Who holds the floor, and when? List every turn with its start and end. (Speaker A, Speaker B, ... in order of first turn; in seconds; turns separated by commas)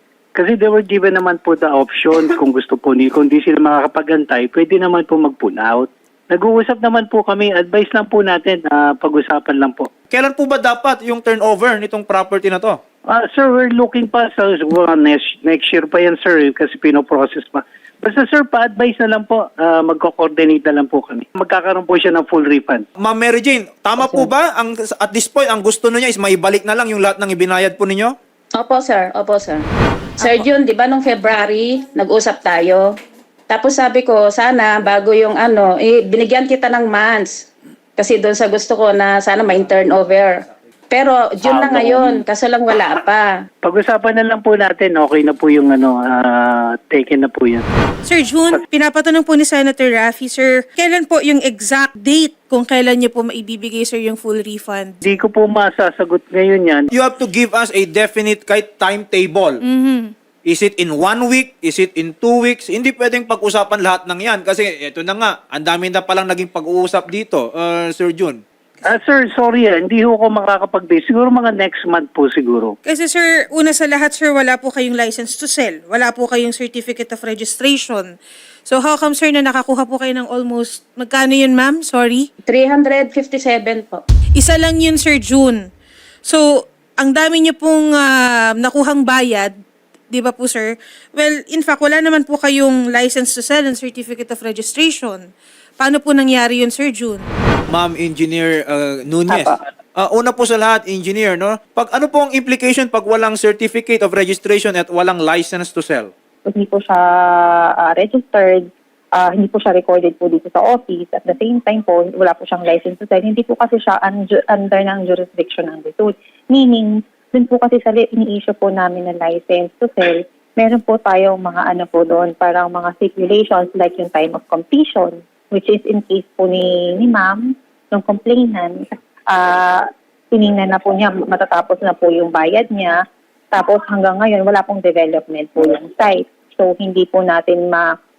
Speaker A: 0.4-9.9, Speaker B: 10.1-12.8, Speaker A: 13.1-22.9, Speaker B: 23.0-28.1, Speaker C: 24.0-24.3, Speaker C: 28.6-29.6, Speaker D: 30.2-30.5, Speaker C: 30.2-32.8, Speaker C: 33.5-37.5, Speaker C: 38.0-43.3, Speaker A: 41.5-42.2, Speaker A: 43.6-47.6, Speaker D: 48.0-55.0, Speaker A: 55.0-56.9, Speaker B: 56.9-59.6, Speaker D: 59.6-60.1, Speaker B: 60.5-68.4, Speaker A: 68.8-72.8, Speaker D: 72.8-78.1, Speaker D: 78.7-82.3, Speaker C: 82.5-84.0, Speaker D: 84.4-85.7, Speaker D: 86.3-89.5, Speaker D: 90.1-95.3, Speaker D: 95.8-97.3, Speaker B: 97.7-106.1, Speaker E: 99.3-99.6, Speaker E: 106.5-133.0, Speaker E: 133.5-137.9